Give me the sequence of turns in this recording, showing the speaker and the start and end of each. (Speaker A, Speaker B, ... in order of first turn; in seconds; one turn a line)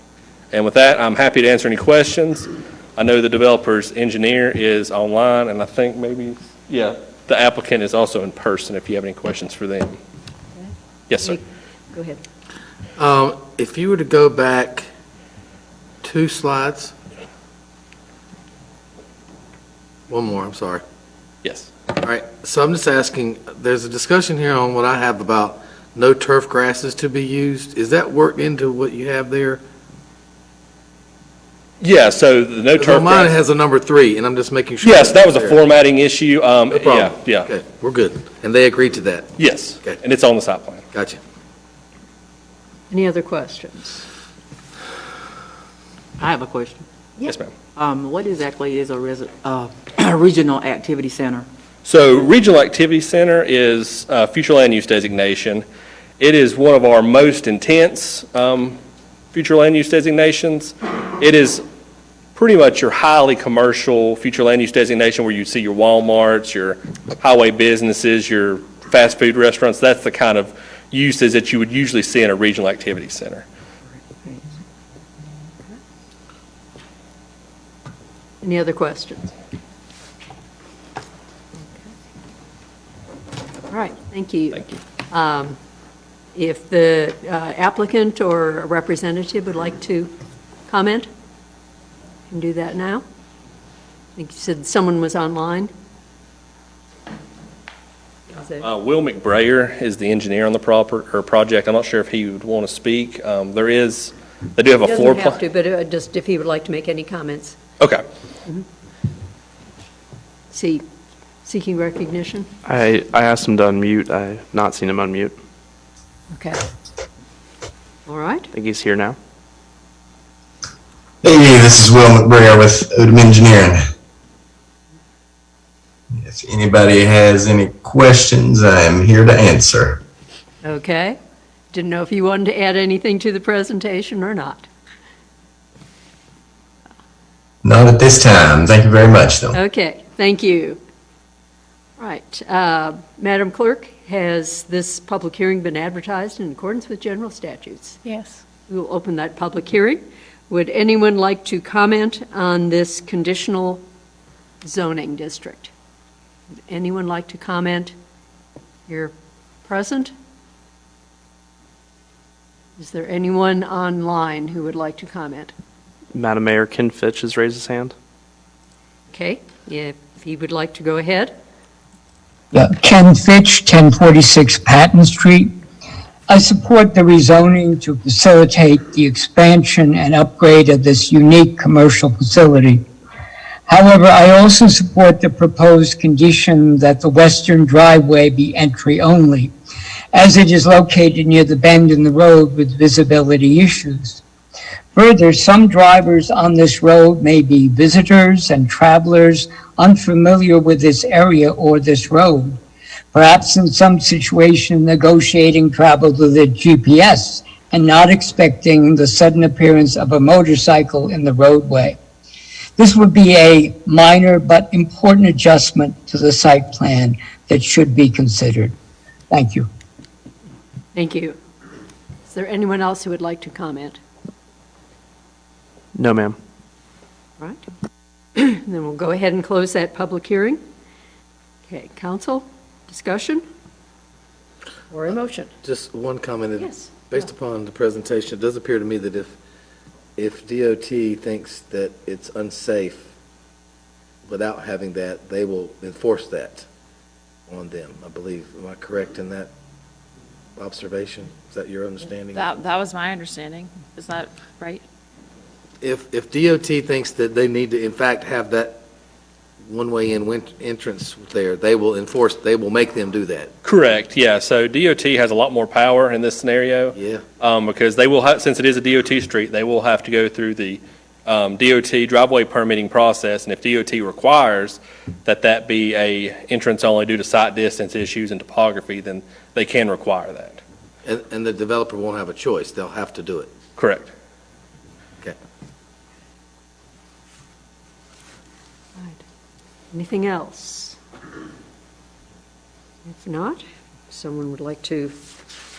Speaker A: 0.5-9.9
Speaker B: 10.6-12.2
Speaker A: 11.1-11.4
Speaker C: 13.0-14.9
Speaker C: 16.0-16.9
Speaker C: 20.1-20.8
Speaker A: 21.4-21.7
Speaker C: 22.0-29.6
Speaker A: 31.8-33.3
Speaker C: 32.8-35.6
Speaker A: 34.8-37.5
Speaker C: 36.7-39.3
Speaker A: 39.4-40.8
Speaker C: 40.9-41.2
Speaker B: 42.9-44.0
Speaker D: 46.2-46.9
Speaker D: 47.7-51.5
Speaker A: 51.8-55.6
Speaker A: 56.2-58.8
Speaker A: 59.3-61.6
Speaker A: 62.4-73.4
Speaker D: 74.2-74.5
Speaker B: 78.4-79.3
Speaker B: 83.7-85.6
Speaker A: 84.5-84.8
Speaker B: 86.3-90.1
Speaker B: 90.7-91.1
Speaker B: 92.3-93.0
Speaker B: 94.2-95.7
Speaker B: 98.3-98.7
Speaker A: 98.6-105.4
Speaker B: 104.8-107.6
Speaker B: 110.5-110.8
Speaker B: 111.4-112.5
Speaker E: 112.6-115.3
Speaker B: 116.3-116.6
Speaker B: 118.0-118.5
Speaker E: 118.5-119.2
Speaker F: 121.2-123.9
Speaker F: 126.1-130.0
Speaker B: 130.6-131.2
Speaker B: 131.7-134.7
Speaker F: 137.6-139.6
Speaker B: 139.5-140.8
Speaker B: 142.0-148.0
Speaker B: 148.7-153.8
Speaker B: 154.6-155.7
Speaker B: 156.7-157.9
Speaker B: 158.9-159.1
Speaker B: 159.6-160.1
Speaker B: 162.8-165.5
Speaker E: 166.1-167.9
Speaker B: 169.1-171.3
Speaker G: 172.5-175.5
Speaker G: 176.3-182.8
Speaker G: 183.7-189.5
Speaker G: 190.1-194.2
Speaker G: 194.9-202.6
Speaker G: 203.1-212.0
Speaker G: 212.8-218.7
Speaker G: 219.3-219.7
Speaker B: 220.9-221.4
Speaker B: 222.2-224.0
Speaker E: 225.9-226.4
Speaker B: 227.4-227.6
Speaker B: 228.3-230.6
Speaker B: 231.7-233.4
Speaker B: 234.9-235.5
Speaker C: 235.6-239.3
Speaker B: 236.6-237.0
Speaker C: 240.2-243.1
Speaker C: 244.3-246.6
Speaker C: 247.5-249.5
Speaker C: 250.6-252.5
Speaker H: 252.3-254.8
Speaker C: 255.8-258.8
Speaker C: 259.6-263.5
Speaker A: 263.6-280.6
Speaker C: 266.9-267.2
Speaker C: 281.1-283.5
Speaker A: 283.8-284.1
Speaker B: 289.9-291.0
Speaker B: 293.1-295.4